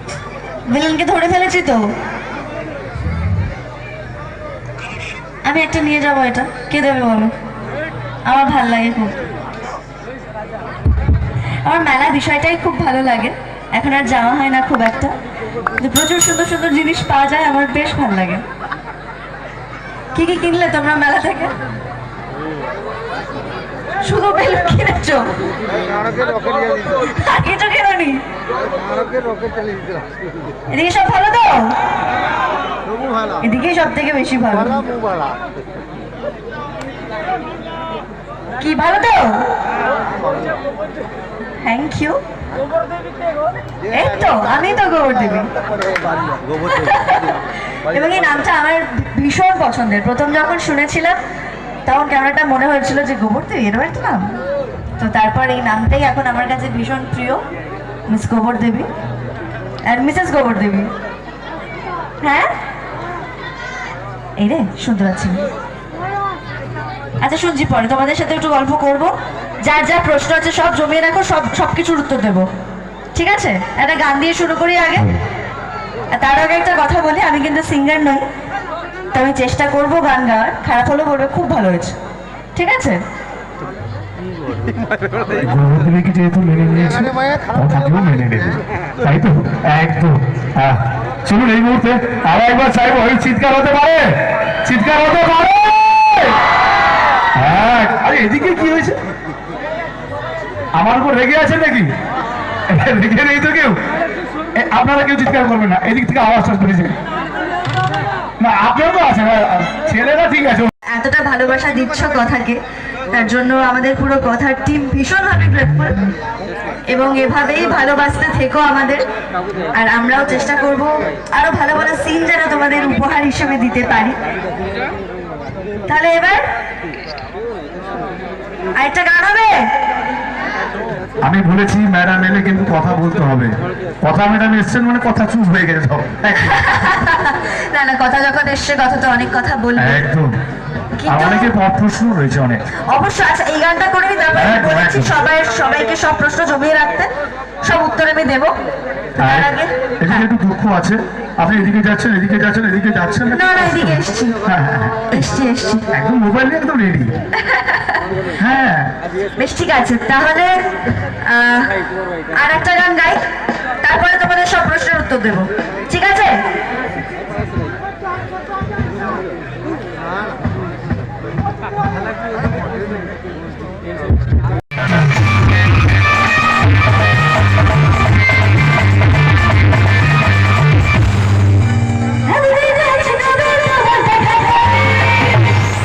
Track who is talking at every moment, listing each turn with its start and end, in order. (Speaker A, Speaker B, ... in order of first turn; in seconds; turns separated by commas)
Speaker A: 0.7-1.9, Speaker A: 5.5-7.3, Speaker A: 8.3-9.2, Speaker A: 11.7-15.2, Speaker A: 15.8-18.4, Speaker A: 20.1-21.6, Speaker A: 24.0-25.3, Speaker A: 27.0-28.2, Speaker A: 30.7-31.8, Speaker A: 33.4-34.9, Speaker A: 38.6-39.5, Speaker A: 41.6-42.2, Speaker A: 43.9-45.5, Speaker A: 46.6-51.2, Speaker A: 51.9-54.3, Speaker A: 55.0-57.4, Speaker A: 58.1-58.9, Speaker A: 59.9-60.9, Speaker A: 62.2-62.5, Speaker A: 64.4-65.4, Speaker A: 67.2-69.1, Speaker A: 69.6-72.5, Speaker A: 73.2-75.2, Speaker A: 76.1-78.3, Speaker A: 79.1-82.0, Speaker A: 82.5-83.0, Speaker B: 85.3-96.4, Speaker B: 97.4-99.0, Speaker B: 100.8-101.9, Speaker B: 102.7-103.8, Speaker B: 104.6-106.9, Speaker B: 108.4-110.7, Speaker A: 110.9-116.1, Speaker A: 116.9-119.1, Speaker A: 119.7-124.2, Speaker A: 125.9-126.5, Speaker A: 128.8-129.7, Speaker B: 131.2-136.7, Speaker A: 136.4-140.0, Speaker B: 139.8-140.3, Speaker A: 141.0-141.5, Speaker B: 141.1-142.7, Speaker A: 142.9-147.1, Speaker B: 144.3-145.2, Speaker A: 147.6-148.5, Speaker A: 149.2-150.2, Speaker B: 149.2-149.5, Speaker B: 150.0-155.1, Speaker A: 153.3-154.4, Speaker A: 155.1-155.9, Speaker B: 155.9-157.1, Speaker A: 157.4-158.0, Speaker B: 158.4-158.9, Speaker A: 159.4-160.6, Speaker A: 161.2-161.8, Speaker A: 162.3-163.2, Speaker A: 163.8-166.4, Speaker A: 182.3-184.8